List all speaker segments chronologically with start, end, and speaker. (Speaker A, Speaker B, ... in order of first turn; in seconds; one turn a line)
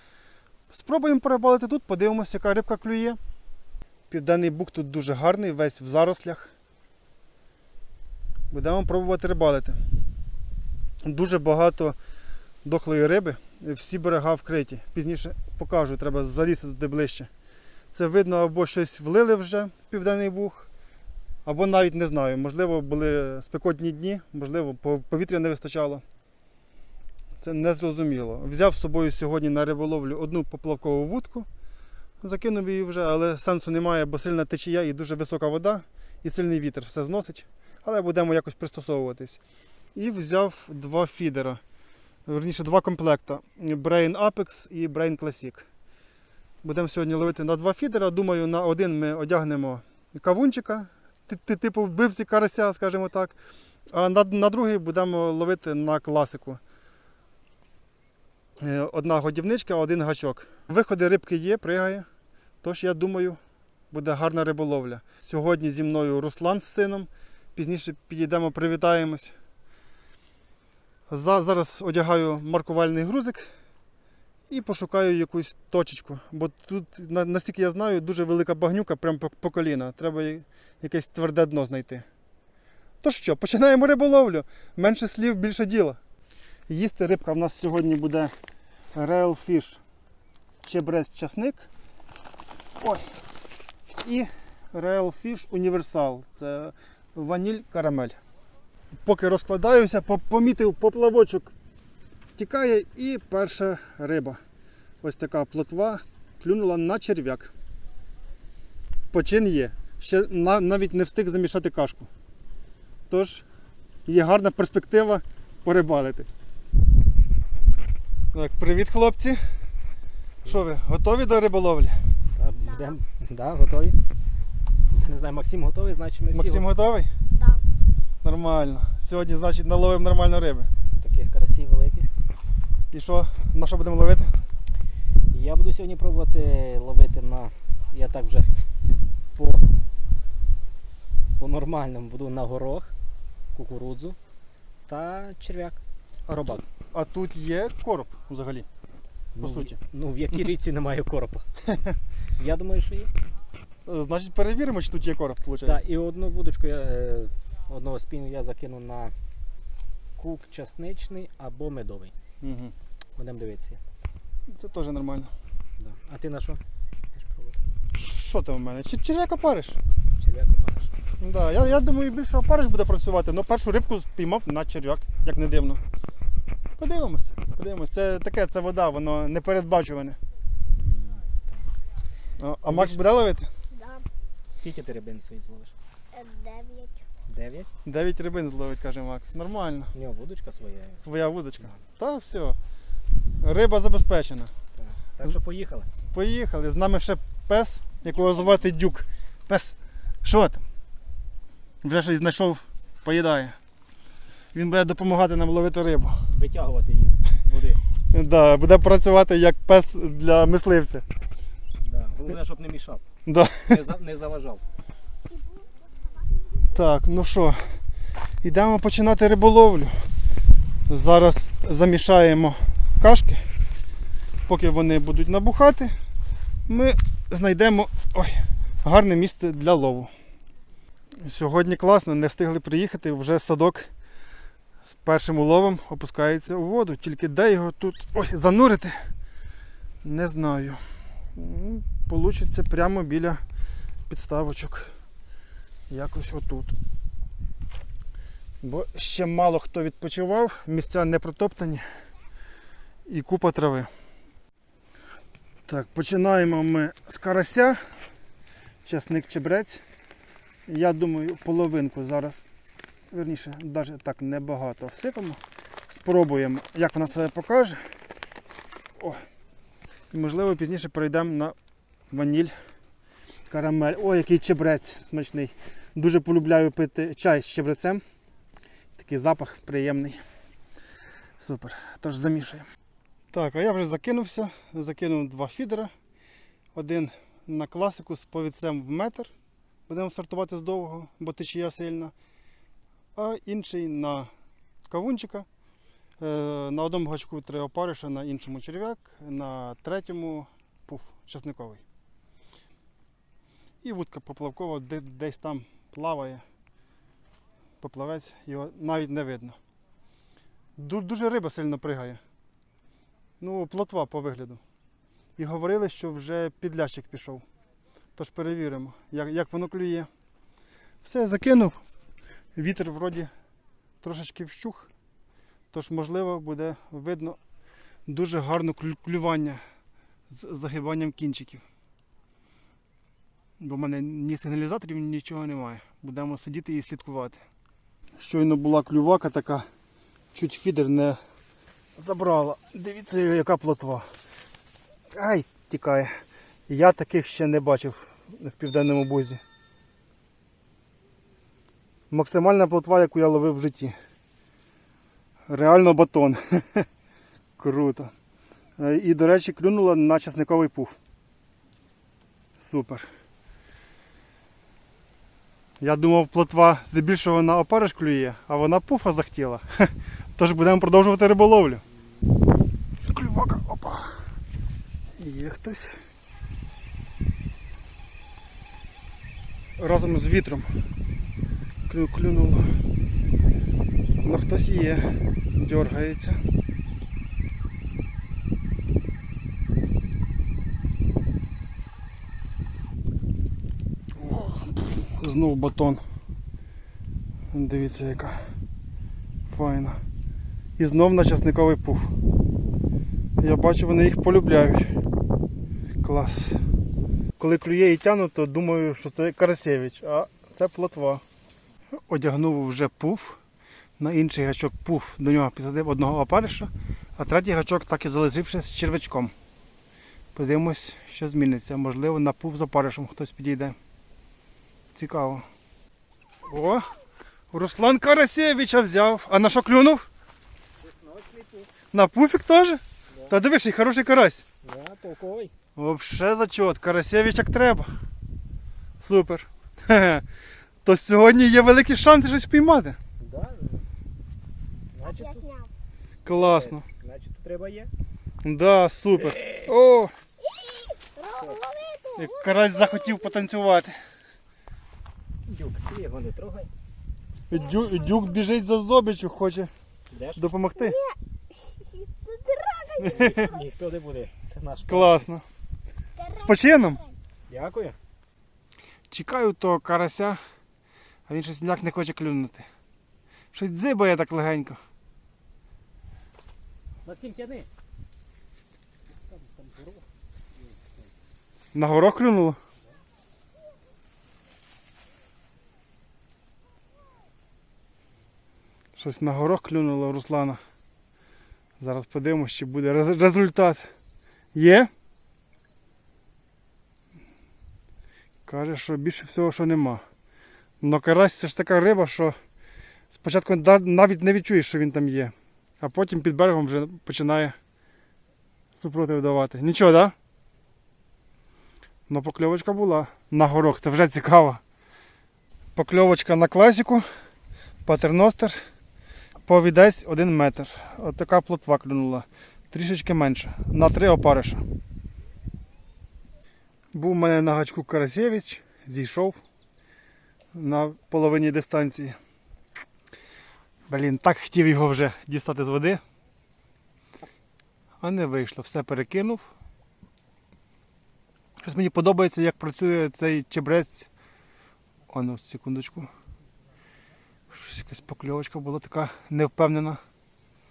Speaker A: 0.7-3.2
Speaker A: 4.1-6.5
Speaker A: 8.5-9.8
Speaker A: 11.0-12.0
Speaker A: 12.6-17.3
Speaker A: 17.9-20.7
Speaker A: 21.4-26.0
Speaker A: 27.4-31.5
Speaker A: 32.2-39.4
Speaker A: 39.9-41.6
Speaker A: 42.2-45.6
Speaker A: 46.6-53.4
Speaker A: 53.9-56.6
Speaker A: 58.6-62.1
Speaker A: 62.6-63.4
Speaker A: 63.9-69.3
Speaker A: 71.1-73.5
Speaker A: 74.5-82.0
Speaker A: 83.0-86.0
Speaker A: 86.7-88.3
Speaker A: 88.9-89.8
Speaker A: 90.6-91.6
Speaker A: 92.8-93.1
Speaker A: 93.9-98.2
Speaker A: 99.0-101.5
Speaker A: 102.4-104.4
Speaker A: 105.0-107.5
Speaker A: 109.1-112.1
Speaker A: 113.1-113.4
Speaker A: 114.0-116.3
Speaker A: 118.3-119.4
Speaker A: 120.5-122.0
Speaker B: 122.3-124.0
Speaker C: 122.6-123.0
Speaker B: 124.9-126.6
Speaker A: 126.3-127.1
Speaker C: 127.3-127.6
Speaker A: 128.2-130.7
Speaker B: 131.0-132.1
Speaker A: 132.9-134.4
Speaker B: 135.3-138.7
Speaker B: 139.3-139.7
Speaker B: 141.4-142.9
Speaker B: 143.5-144.2
Speaker B: 144.9-145.8
Speaker A: 146.3-148.7
Speaker B: 149.3-151.4
Speaker A: 149.4-149.8
Speaker B: 152.4-153.1
Speaker A: 153.8-155.8
Speaker B: 155.6-159.1
Speaker B: 160.2-162.1
Speaker A: 162.4-162.7
Speaker B: 163.2-163.8
Speaker A: 164.5-165.3
Speaker B: 165.8-166.6
Speaker B: 167.1-167.6
Speaker A: 167.9-169.8
Speaker B: 170.2-170.9
Speaker A: 171.2-175.8
Speaker A: 176.8-180.2
Speaker B: 180.7-181.7
Speaker A: 182.4-183.5
Speaker B: 182.7-183.0
Speaker C: 183.7-184.1
Speaker B: 184.5-185.7
Speaker C: 186.1-187.0
Speaker B: 187.3-187.7
Speaker A: 187.8-189.9
Speaker B: 189.9-191.0
Speaker A: 191.0-192.6
Speaker A: 193.4-194.5
Speaker B: 194.8-195.9
Speaker A: 196.1-200.6
Speaker C: 198.2-198.6
Speaker A: 201.8-203.6
Speaker A: 204.5-206.2
Speaker B: 206.3-207.8
Speaker A: 208.1-211.0
Speaker B: 211.8-213.0
Speaker A: 213.2-213.8
Speaker B: 213.7-214.6
Speaker C: 215.3-216.7
Speaker A: 216.7-217.6
Speaker A: 218.4-219.9
Speaker A: 220.9-223.4
Speaker A: 224.4-225.9
Speaker A: 226.7-230.1
Speaker A: 231.2-233.9
Speaker A: 234.8-239.1
Speaker A: 240.0-240.8
Speaker A: 241.3-243.4
Speaker A: 244.1-244.9
Speaker A: 245.9-246.7
Speaker A: 248.6-251.8
Speaker A: 253.1-253.9
Speaker A: 255.7-257.9
Speaker A: 258.8-259.8
Speaker A: 260.7-262.5
Speaker A: 263.1-267.8
Speaker A: 269.0-269.2
Speaker A: 270.1-271.6
Speaker A: 272.1-272.5
Speaker A: 273.5-278.0
Speaker A: 279.0-280.2
Speaker A: 281.4-282.7
Speaker A: 283.3-285.9
Speaker A: 286.7-289.3
Speaker A: 289.9-292.1
Speaker A: 293.1-294.3
Speaker A: 294.9-295.4
Speaker A: 296.2-301.8
Speaker A: 303.8-306.4
Speaker A: 307.8-309.6
Speaker A: 310.8-312.2
Speaker A: 313.4-314.6
Speaker A: 315.4-317.4
Speaker A: 318.2-320.1
Speaker A: 321.0-321.8
Speaker A: 322.6-323.3
Speaker A: 324.0-324.9
Speaker A: 325.7-327.4
Speaker A: 328.1-329.6
Speaker A: 330.3-331.6
Speaker A: 333.6-337.4
Speaker A: 338.2-339.6
Speaker A: 340.3-341.2
Speaker A: 341.9-344.1
Speaker A: 345.1-346.1
Speaker A: 346.7-349.4
Speaker A: 352.1-353.9
Speaker A: 355.5-356.9
Speaker A: 357.6-358.1
Speaker A: 358.8-361.0
Speaker A: 362.6-363.1
Speaker A: 365.8-371.8
Speaker A: 373.0-374.2
Speaker A: 375.2-376.0
Speaker A: 379.8-380.7
Speaker A: 381.9-382.7
Speaker A: 384.2-386.4
Speaker A: 394.1-396.0
Speaker A: 397.5-398.4
Speaker A: 399.5-400.0
Speaker A: 400.8-402.1
Speaker A: 403.4-405.1
Speaker A: 406.0-406.6
Speaker A: 407.4-411.2
Speaker A: 412.1-413.4
Speaker A: 414.0-419.3
Speaker A: 420.3-423.8
Speaker A: 424.9-425.5
Speaker A: 426.4-426.9
Speaker A: 427.5-430.1
Speaker B: 430.8-431.7
Speaker A: 431.9-434.4
Speaker B: 433.1-433.4
Speaker B: 434.6-435.5
Speaker A: 435.8-437.9
Speaker A: 439.0-440.2
Speaker A: 440.8-443.0
Speaker B: 443.2-443.9
Speaker B: 444.9-445.4
Speaker C: 445.0-445.7
Speaker A: 446.2-446.8
Speaker B: 446.3-447.9
Speaker A: 448.4-450.1
Speaker B: 449.1-449.7
Speaker C: 450.4-453.4
Speaker A: 452.2-453.9
Speaker B: 455.5-456.7
Speaker C: 457.5-458.6
Speaker A: 457.5-459.7
Speaker B: 460.1-460.4
Speaker A: 460.4-461.0
Speaker C: 460.8-463.6
Speaker A: 463.0-463.5
Speaker B: 463.0-465.2
Speaker A: 464.9-465.4
Speaker C: 466.1-467.1
Speaker A: 466.3-467.0
Speaker B: 467.5-468.0
Speaker A: 469.1-470.4
Speaker A: 471.3-472.6
Speaker A: 473.5-474.8
Speaker B: 477.0-477.7
Speaker B: 479.3-480.0
Speaker B: 480.6-481.1
Speaker A: 481.7-482.6
Speaker A: 489.0-490.6
Speaker A: 491.8-493.9
Speaker A: 494.5-494.9
Speaker A: 498.4-500.0
Speaker A: 500.8-502.4
Speaker A: 503.2-507.6
Speaker A: 508.7-510.1
Speaker A: 512.1-514.6
Speaker A: 515.8-517.0
Speaker A: 517.9-518.6
Speaker A: 519.5-524.6
Speaker A: 526.9-529.4
Speaker A: 530.5-532.2
Speaker A: 533.9-536.0
Speaker A: 538.0-539.5
Speaker A: 541.6-544.1
Speaker A: 545.1-546.1
Speaker A: 547.5-550.0